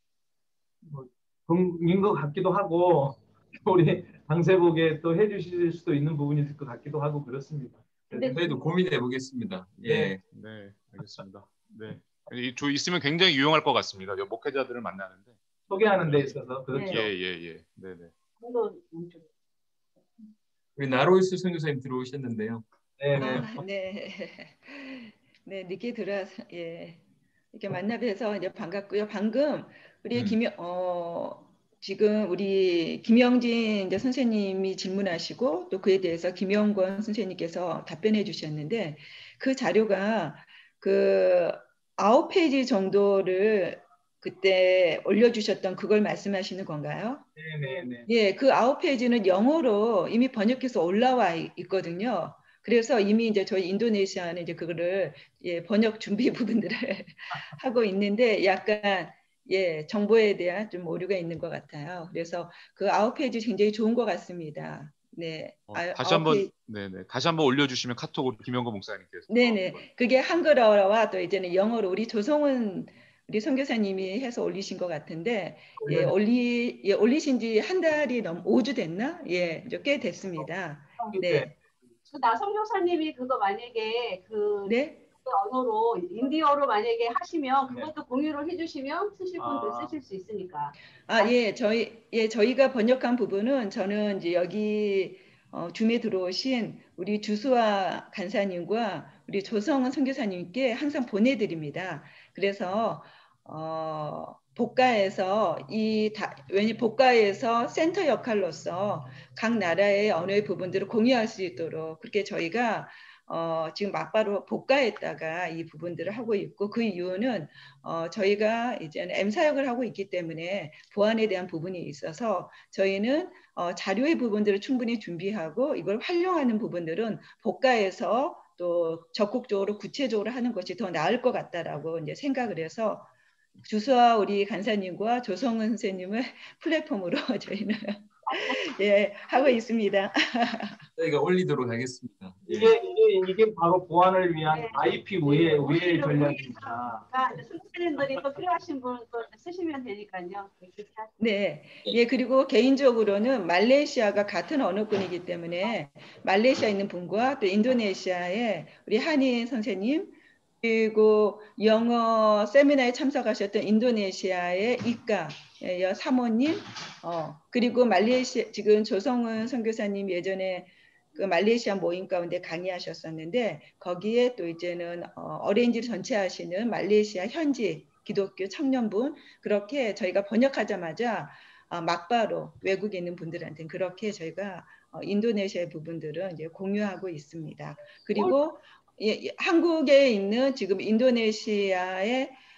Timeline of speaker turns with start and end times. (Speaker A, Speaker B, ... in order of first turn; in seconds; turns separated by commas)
Speaker A: 0.8-8.3, Speaker B: 8.1-10.2, Speaker C: 8.2-8.6, Speaker A: 9.9-10.1, Speaker D: 10.3-16.3, Speaker A: 15.7-17.1, Speaker C: 16.8-17.1, Speaker D: 16.9-18.1, Speaker C: 18.4-19.3, Speaker B: 20.8-23.5, Speaker A: 23.0-23.5, Speaker E: 23.2-27.0, Speaker E: 27.5-47.3, Speaker A: 47.4-48.1, Speaker E: 48.1-66.5, Speaker D: 65.7-69.9, Speaker E: 69.3-81.5, Speaker A: 75.8-76.1, Speaker A: 81.0-81.6, Speaker C: 82.1-91.3, Speaker E: 84.7-85.1, Speaker A: 89.4-89.9, Speaker E: 91.1-133.1, Speaker E: 133.6-140.8, Speaker C: 138.3-138.6, Speaker B: 141.0-142.7, Speaker A: 142.5-147.1, Speaker C: 144.5-151.1, Speaker E: 151.2-192.4